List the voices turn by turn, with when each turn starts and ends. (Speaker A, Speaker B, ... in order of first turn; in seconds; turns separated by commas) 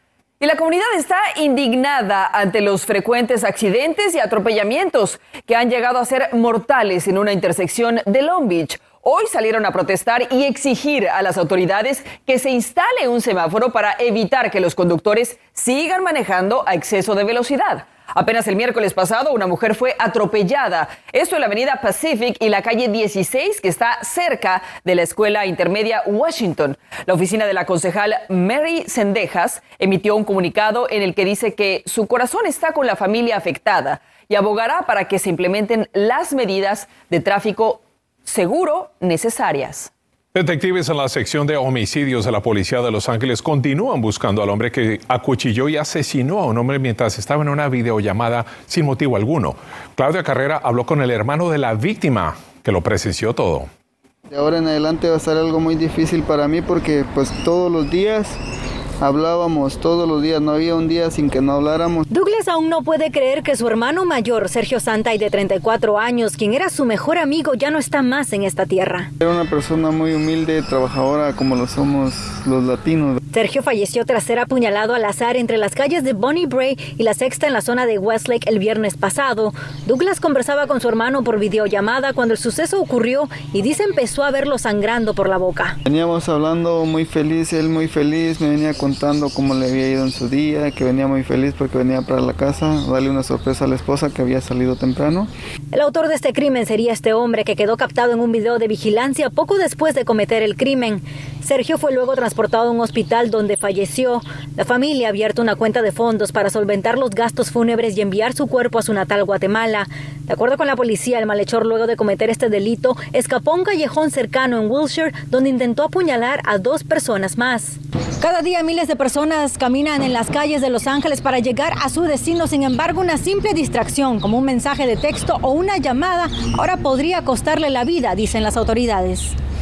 Speaker A: 0.4-39.9, Speaker B: 40.3-53.7, Speaker C: 54.3-58.4, Speaker C: 59.0-62.1, Speaker D: 62.1-69.1, Speaker C: 69.2-73.2, Speaker D: 73.3-85.8, Speaker C: 85.8-95.3, Speaker D: 95.7-129.3